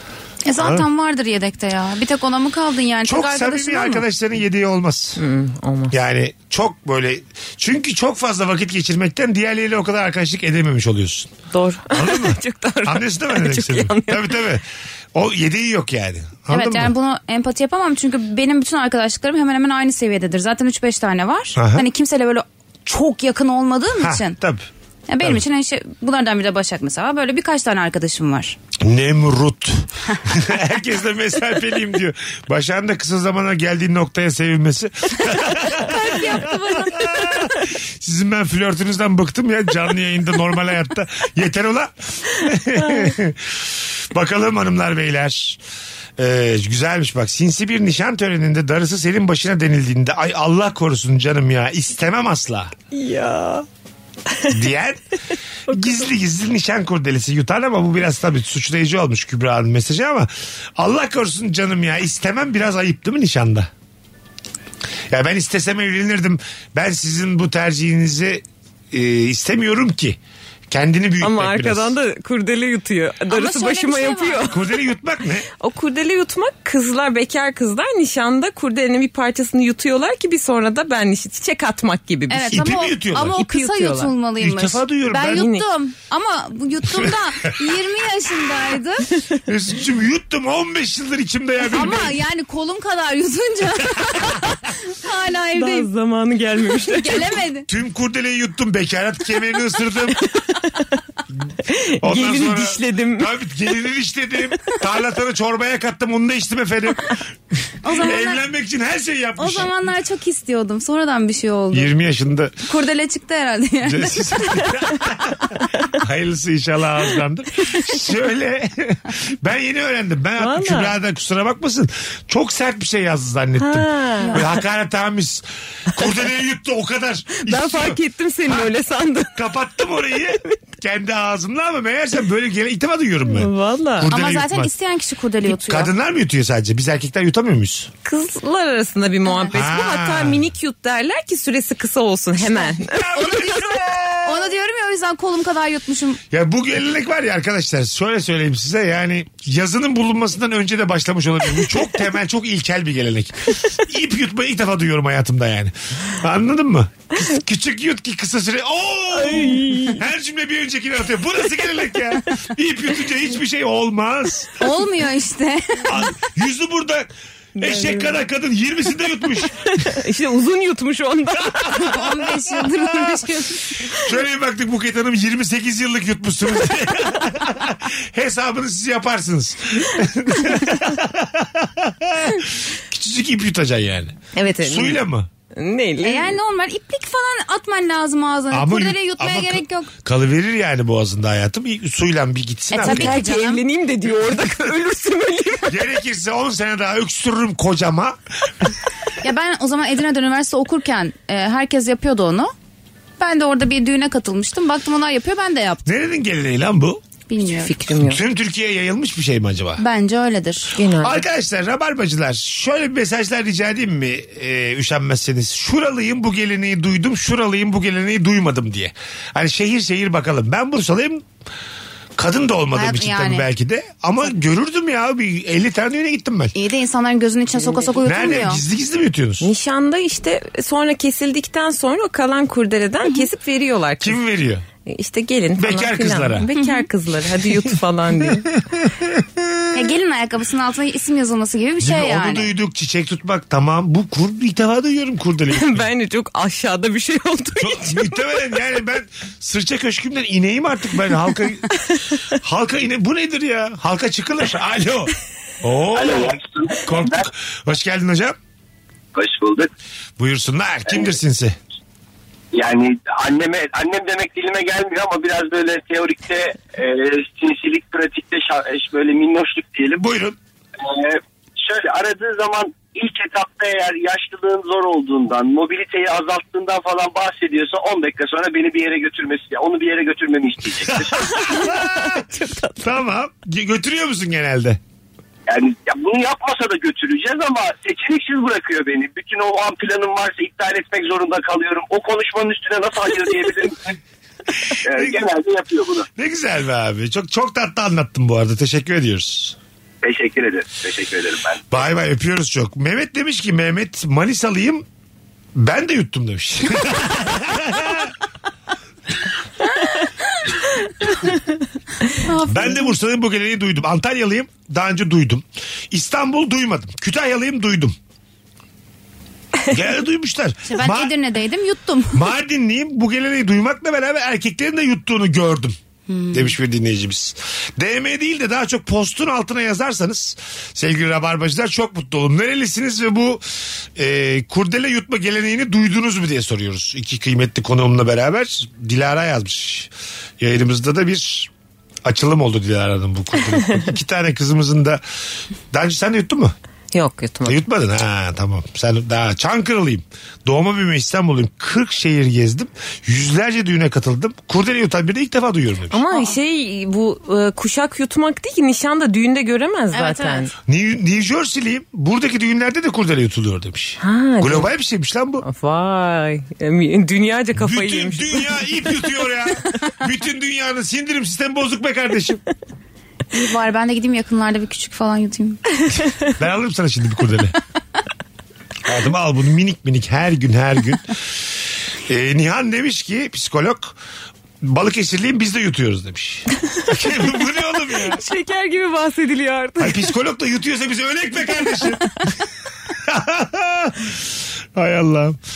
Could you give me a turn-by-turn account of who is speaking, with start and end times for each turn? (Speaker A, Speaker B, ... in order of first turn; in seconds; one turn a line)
Speaker A: 0.4-4.0
Speaker B: 0.6-0.8
Speaker B: 3.0-5.2
Speaker C: 5.2-5.9
Speaker B: 5.9-11.3
Speaker C: 11.5-14.4
Speaker B: 11.9-16.9
Speaker A: 16.5-24.4
Speaker B: 21.5-21.8
Speaker B: 24.0-24.7
Speaker A: 25.1-28.6
Speaker B: 28.8-45.6
Speaker A: 35.7-37.0
Speaker B: 46.2-52.7
Speaker C: 52.9-53.6
Speaker B: 54.5-55.0
Speaker B: 55.7-63.7
Speaker C: 55.7-56.0
Speaker B: 65.1-70.2
Speaker B: 70.7-71.9
Speaker C: 71.2-74.7
Speaker A: 73.3-74.5
Speaker B: 74.4-75.5
Speaker C: 75.6-82.6
Speaker A: 82.3-89.0
Speaker B: 82.5-83.4
Speaker C: 83.3-84.1
Speaker B: 84.4-85.5
Speaker C: 85.3-85.7
Speaker B: 86.8-87.6
Speaker B: 89.4-92.2
Speaker A: 91.7-95.9
Speaker C: 95.5-97.4
Speaker A: 96.8-97.7
Speaker B: 97.7-100.3
Speaker C: 100.6-101.0
Speaker C: 101.7-103.3
Speaker B: 102.0-107.2
Speaker A: 107.8-108.4
Speaker B: 107.9-109.7
Speaker A: 109.4-111.9
Speaker B: 111.7-112.6
Speaker A: 112.6-114.2
Speaker B: 113.8-128.6
Speaker C: 120.4-120.9
Speaker C: 123.6-124.5
Speaker C: 127.4-129.4
Speaker B: 129.3-134.7
Speaker C: 130.3-130.5
Speaker C: 133.3-134.1
Speaker A: 134.0-135.9
Speaker B: 135.4-137.9
Speaker C: 138.0-143.3
Speaker A: 139.2-139.5
Speaker B: 139.5-140.4
Speaker B: 142.9-144.5
Speaker A: 143.1-146.2
Speaker B: 146.3-164.5
Speaker C: 159.1-160.0
Speaker A: 164.6-165.8
Speaker B: 165.8-169.9
Speaker C: 167.5-168.2
Speaker C: 169.7-172.0
Speaker A: 171.8-173.8
Speaker B: 172.5-173.2
Speaker B: 173.9-185.3
Speaker C: 184.3-185.0
Speaker C: 185.5-186.4
Speaker A: 186.0-189.9
Speaker B: 188.5-193.2
Speaker A: 192.7-193.6
Speaker C: 192.8-195.8
Speaker B: 195.7-198.2
Speaker A: 199.2-202.5
Speaker A: 203.2-205.8
Speaker B: 205.8-207.0
Speaker A: 207.3-207.7
Speaker C: 207.6-208.2
Speaker B: 208.0-209.8
Speaker A: 209.8-210.8
Speaker C: 210.7-211.2
Speaker B: 211.0-221.2
Speaker B: 222.2-226.5
Speaker A: 222.7-223.5
Speaker A: 226.5-228.6
Speaker B: 228.0-229.5
Speaker C: 229.4-234.2
Speaker B: 234.0-234.6
Speaker C: 234.8-238.5
Speaker B: 235.6-236.5
Speaker A: 236.6-236.8
Speaker B: 238.3-239.7
Speaker A: 239.7-242.5
Speaker B: 241.8-245.9
Speaker C: 245.5-248.1
Speaker B: 247.6-258.4
Speaker D: 255.9-257.2
Speaker D: 259.1-259.7
Speaker B: 260.2-261.6
Speaker D: 262.5-270.0
Speaker B: 269.9-270.4
Speaker D: 270.8-281.3
Speaker B: 280.9-282.2
Speaker C: 281.3-282.8
Speaker B: 282.8-284.8
Speaker D: 285.5-294.0
Speaker D: 294.8-296.1
Speaker B: 294.9-295.2
Speaker B: 296.2-299.6
Speaker D: 300.0-301.6
Speaker B: 301.7-304.8
Speaker B: 305.5-308.1
Speaker A: 312.2-312.9
Speaker B: 312.5-317.9
Speaker B: 319.7-321.1
Speaker A: 320.6-322.2
Speaker B: 322.1-325.7
Speaker A: 326.1-326.5
Speaker B: 326.3-333.4
Speaker B: 333.9-341.5
Speaker B: 342.0-345.0
Speaker B: 345.7-346.5
Speaker C: 346.9-347.6
Speaker B: 347.4-356.0
Speaker C: 355.9-360.5
Speaker A: 359.9-360.5
Speaker B: 360.6-365.4
Speaker C: 364.0-364.7
Speaker C: 365.4-368.7
Speaker B: 367.5-372.4
Speaker A: 373.3-375.6
Speaker B: 376.4-377.6
Speaker B: 378.8-381.1
Speaker B: 382.1-384.0
Speaker B: 384.6-388.2
Speaker C: 388.1-390.1
Speaker B: 389.8-392.2
Speaker B: 392.9-394.2
Speaker B: 394.8-395.4